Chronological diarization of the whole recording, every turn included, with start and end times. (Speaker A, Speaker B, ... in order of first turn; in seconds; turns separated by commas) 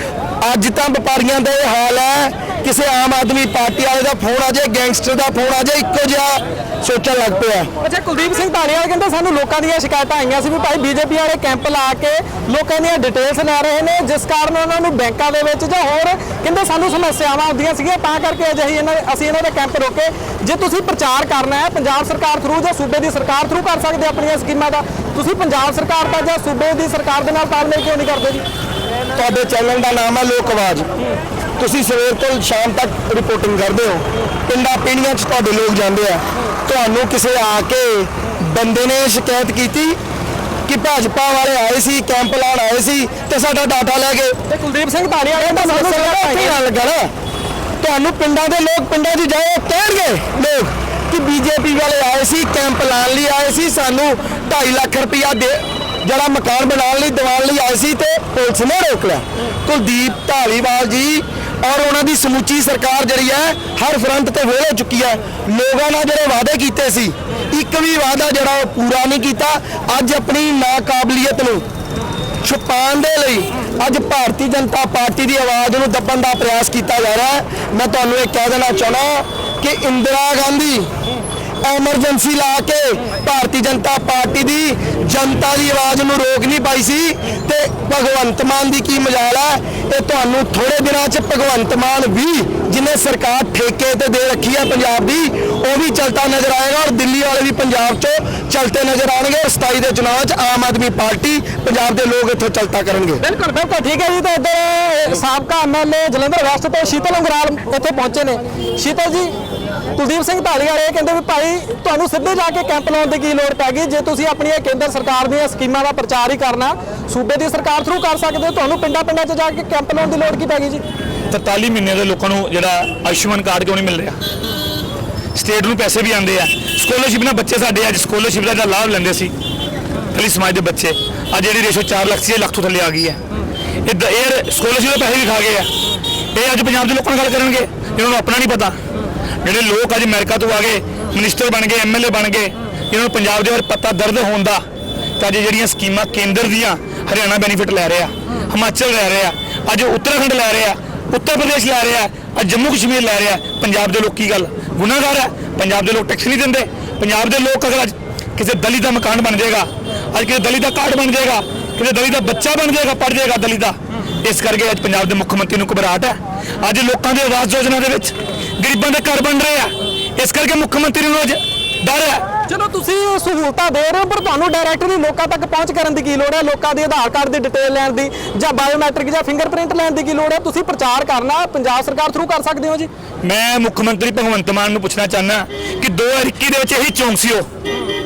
Speaker A: 0.4-7.7, Speaker B: 7.8-28.4, Speaker A: 29.1-30.9, Speaker A: 31.6-40.0, Speaker A: 40.7-44.4, Speaker B: 44.5-46.5, Speaker A: 45.4-47.1, Speaker A: 47.8-71.6, Speaker A: 72.4-80.9, Speaker A: 81.6-103.2, Speaker B: 103.2-109.3, Speaker B: 109.9-120.8, Speaker C: 121.3-124.2, Speaker C: 125.3-129.3, Speaker C: 130.1-133.2, Speaker C: 133.8-135.7, Speaker C: 136.3-138.8, Speaker C: 139.4-144.6, Speaker C: 145.2-172.2, Speaker B: 172.5-182.9, Speaker C: 183.2-187.4